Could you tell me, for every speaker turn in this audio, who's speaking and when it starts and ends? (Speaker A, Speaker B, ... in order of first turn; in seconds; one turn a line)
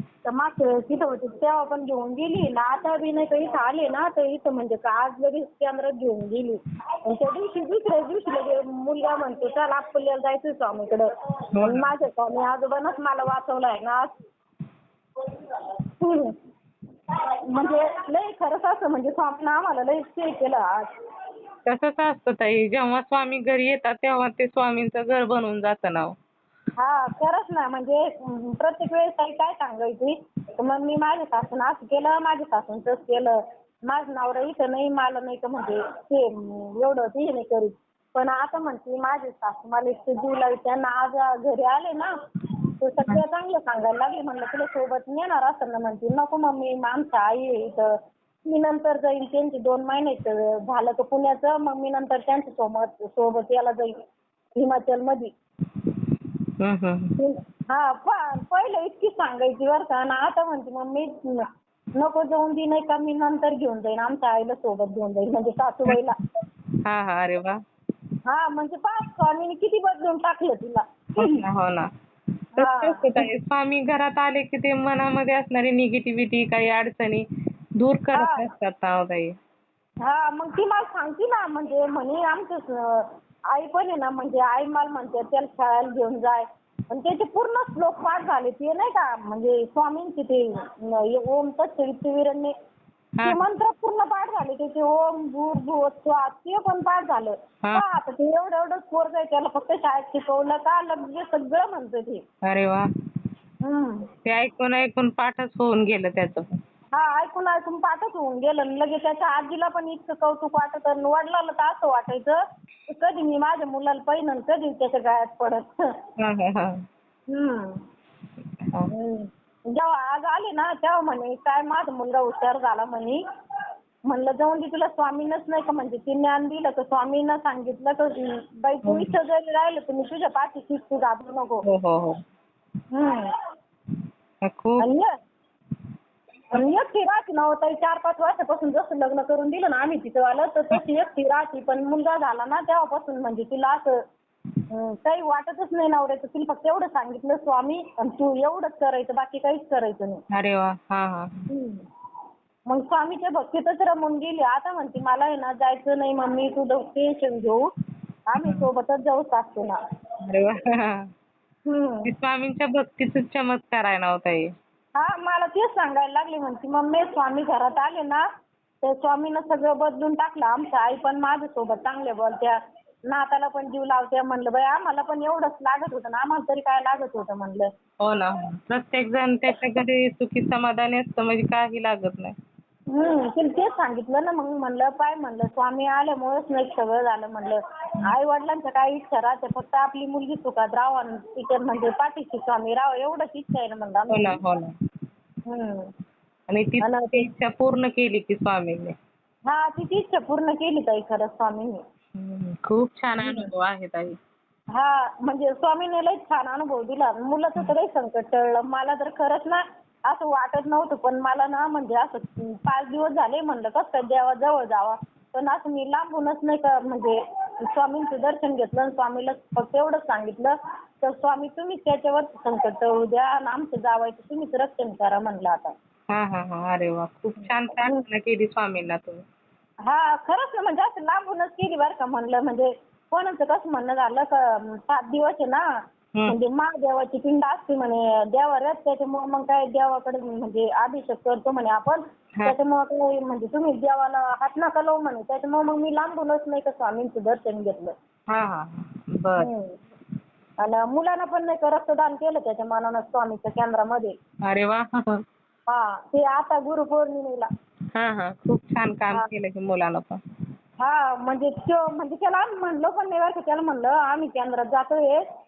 Speaker A: 0.2-11.1
Speaker B: 11.5-11.9
Speaker A: 11.6-14.1
Speaker A: 16.0-16.3
Speaker A: 17.5-20.9
Speaker B: 21.6-26.1
Speaker A: 26.8-42.1
Speaker A: 42.8-47.9
Speaker A: 48.5-53.9
Speaker A: 54.6-55.3
Speaker B: 56.6-57.1
Speaker A: 57.2-61.5
Speaker A: 62.0-66.2
Speaker B: 66.8-67.6
Speaker A: 68.2-71.4
Speaker B: 71.2-71.9
Speaker A: 72.5-73.2
Speaker B: 72.5-77.3
Speaker B: 77.8-79.3
Speaker A: 78.1-78.5
Speaker A: 80.0-92.5
Speaker A: 93.2-102.2
Speaker B: 102.5-102.9
Speaker A: 103.6-104.1
Speaker B: 104.2-106.6
Speaker A: 106.9-115.9
Speaker B: 116.2-116.8
Speaker A: 117.3-117.8
Speaker A: 118.9-123.2
Speaker A: 124.1-131.6
Speaker B: 128.8-129.1
Speaker B: 131.7-132.2
Speaker A: 132.9-133.3
Speaker B: 134.4-134.8
Speaker A: 134.8-135.1
Speaker A: 136.5-143.9
Speaker A: 144.7-150.2
Speaker B: 150.3-151.5
Speaker A: 151.5-151.8
Speaker A: 152.7-157.6
Speaker A: 158.3-159.8
Speaker B: 158.4-158.7
Speaker B: 160.2-161.0
Speaker A: 161.7-162.1
Speaker B: 162.1-164.5
Speaker A: 164.9-168.2
Speaker A: 168.8-172.6
Speaker A: 173.1-177.7
Speaker B: 178.0-182.3
Speaker A: 182.9-194.4
Speaker B: 194.1-194.7
Speaker A: 195.5-195.9
Speaker B: 196.5-198.9
Speaker A: 196.8-197.3
Speaker A: 199.5-201.8
Speaker B: 202.2-204.2
Speaker A: 203.2-203.5
Speaker A: 204.7-217.2
Speaker A: 217.7-225.7
Speaker B: 226.1-229.2
Speaker A: 227.4-228.0
Speaker A: 229.8-235.6
Speaker A: 236.3-247.9
Speaker B: 248.3-249.5
Speaker A: 249.4-249.8
Speaker A: 250.6-254.1
Speaker B: 254.5-255.2
Speaker A: 255.7-257.5
Speaker B: 257.9-260.2
Speaker A: 260.8-265.2